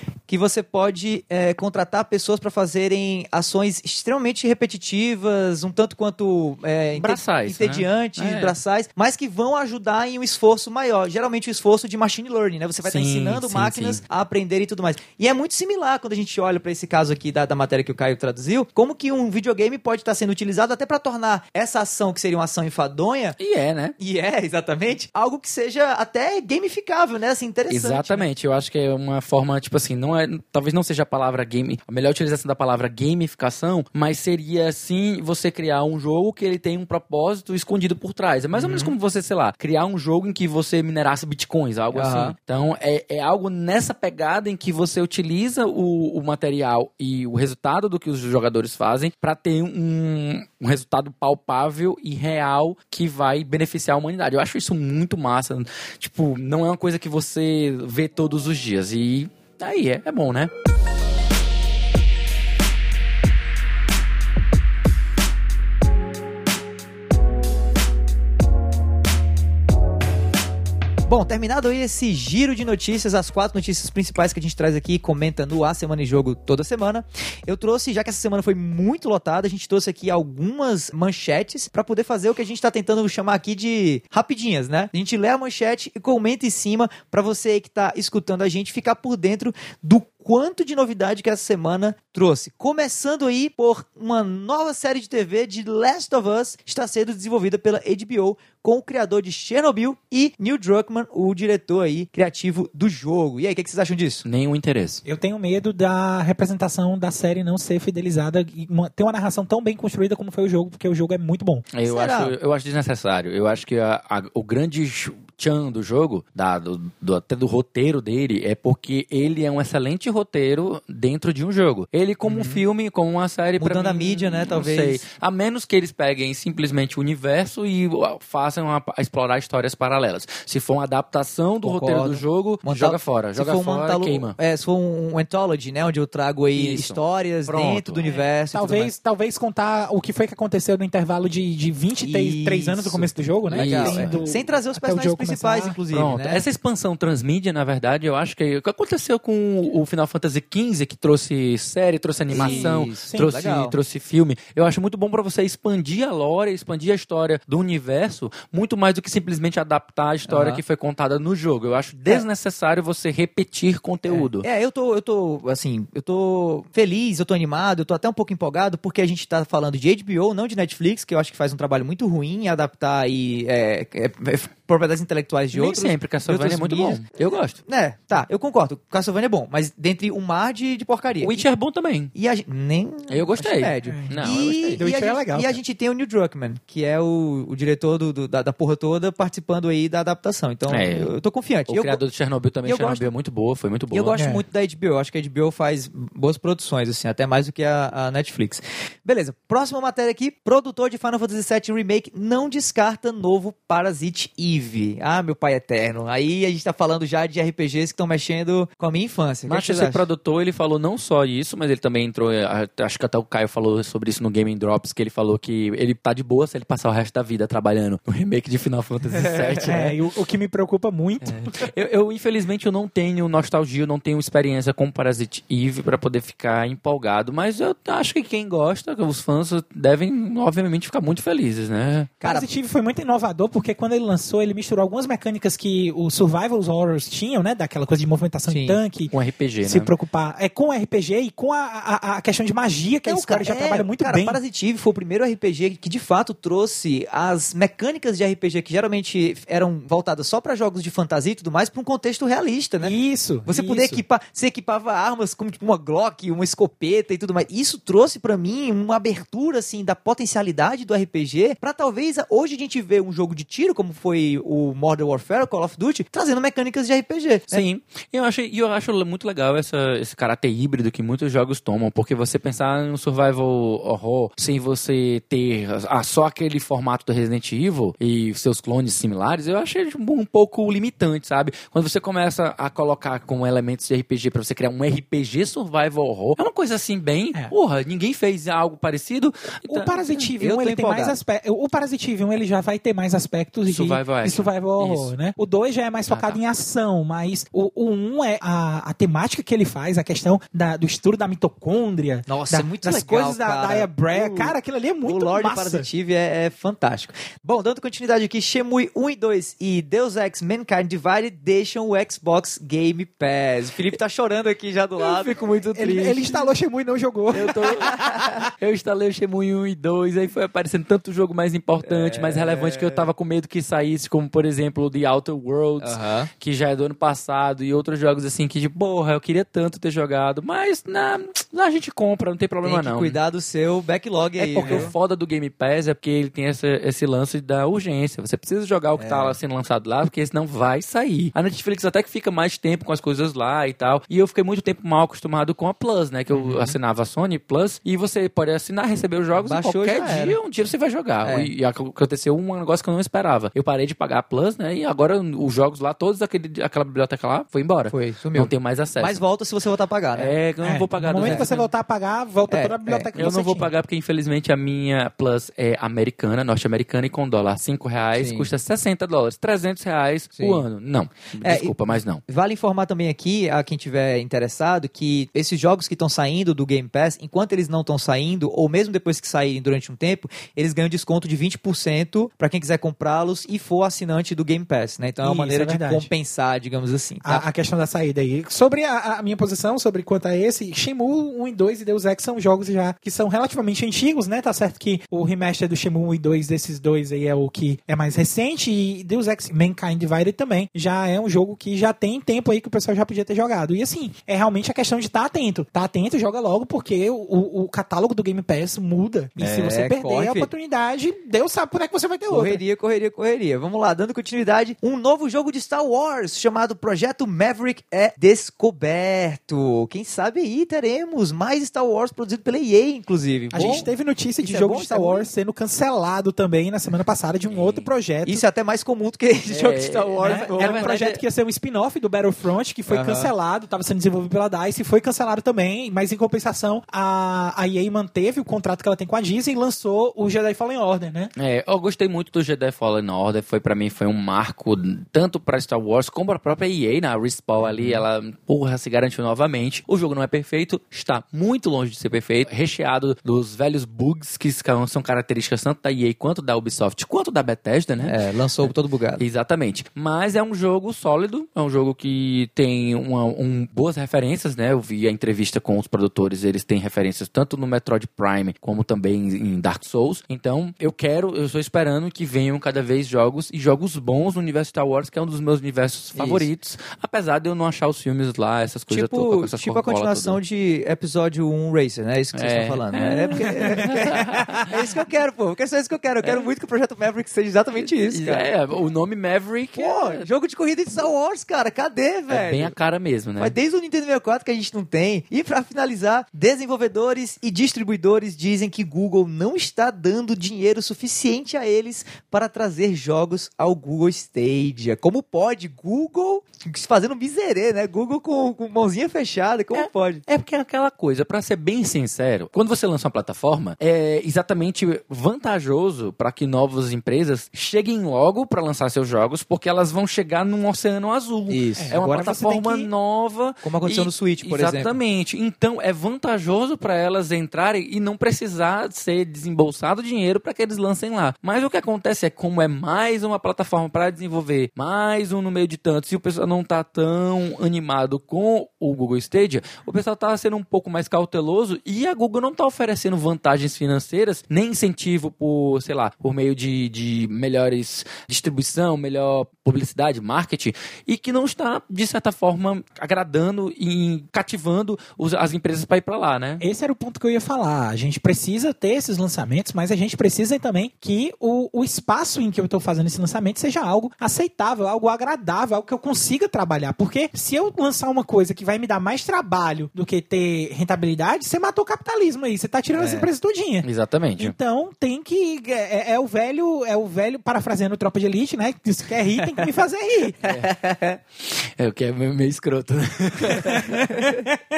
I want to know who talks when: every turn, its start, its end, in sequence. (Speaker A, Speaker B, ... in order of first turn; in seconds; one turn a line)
Speaker A: 0.3-23.4
Speaker B: 7.0-8.6
Speaker B: 12.8-14.0
Speaker B: 23.4-23.9
Speaker A: 24.0-28.3
Speaker B: 27.7-60.5
Speaker A: 38.5-38.9
Speaker A: 41.9-42.4
Speaker A: 71.1-104.2
Speaker B: 104.2-105.0
Speaker C: 105.0-111.7
Speaker B: 111.7-134.4
Speaker A: 111.8-112.3
Speaker A: 122.3-122.6
Speaker A: 123.6-125.0
Speaker A: 131.6-138.9
Speaker B: 136.6-138.1
Speaker C: 138.0-145.8
Speaker A: 142.0-146.4
Speaker B: 143.5-144.3
Speaker B: 145.9-164.5
Speaker A: 152.3-153.8
Speaker C: 152.3-153.3
Speaker A: 160.3-160.6
Speaker A: 164.1-177.1
Speaker B: 175.5-177.6
Speaker A: 177.6-181.4
Speaker B: 181.2-182.1
Speaker A: 182.1-192.0
Speaker B: 183.1-184.8
Speaker C: 183.8-185.6
Speaker B: 190.7-191.1
Speaker B: 191.7-194.2
Speaker A: 192.7-193.1
Speaker A: 193.9-210.0
Speaker C: 194.2-194.4
Speaker B: 209.5-219.9
Speaker C: 219.6-221.7
Speaker B: 221.2-232.1
Speaker C: 232.2-239.1
Speaker A: 232.2-232.5
Speaker A: 238.5-238.8
Speaker B: 239.1-239.9
Speaker C: 239.7-244.4
Speaker A: 243.1-267.6
Speaker C: 252.8-254.0
Speaker B: 267.5-290.3
Speaker C: 289.7-305.9
Speaker A: 290.4-291.2
Speaker B: 293.7-295.1
Speaker B: 296.1-296.4
Speaker A: 302.3-316.5
Speaker C: 315.0-318.4
Speaker B: 317.3-333.2
Speaker A: 317.9-318.4
Speaker A: 321.8-323.1
Speaker A: 325.8-326.3
Speaker A: 332.6-334.9
Speaker B: 334.4-359.2
Speaker C: 334.6-334.9
Speaker A: 339.0-339.4
Speaker A: 346.3-346.8
Speaker A: 349.4-350.4
Speaker A: 351.2-351.5
Speaker A: 357.9-360.3
Speaker B: 360.1-361.7
Speaker C: 360.6-363.7
Speaker A: 361.2-361.5
Speaker A: 362.5-363.1
Speaker B: 363.1-372.2
Speaker A: 368.2-368.5
Speaker A: 370.4-370.6
Speaker A: 371.4-387.4
Speaker C: 385.2-386.1
Speaker C: 387.2-412.6
Speaker A: 409.4-410.5
Speaker A: 412.3-425.3
Speaker C: 423.5-428.4
Speaker B: 423.6-423.9
Speaker B: 427.4-427.9
Speaker A: 428.2-430.9
Speaker B: 429.5-431.2
Speaker C: 430.2-441.3
Speaker A: 432.9-433.3
Speaker B: 441.4-480.4
Speaker A: 447.6-448.1
Speaker A: 458.0-459.2
Speaker A: 476.1-476.5
Speaker A: 478.9-488.5
Speaker B: 482.3-484.8
Speaker B: 487.8-490.3
Speaker A: 489.8-492.7
Speaker B: 492.3-493.6
Speaker A: 493.4-510.2
Speaker B: 509.7-556.6
Speaker A: 521.5-522.0
Speaker C: 521.8-522.9
Speaker A: 523.6-524.9
Speaker C: 556.6-573.9
Speaker A: 572.9-573.3
Speaker B: 573.8-574.6
Speaker C: 574.4-580.4
Speaker A: 579.4-579.7
Speaker A: 580.4-581.2
Speaker B: 580.4-580.7
Speaker B: 581.4-584.1
Speaker A: 584.0-584.4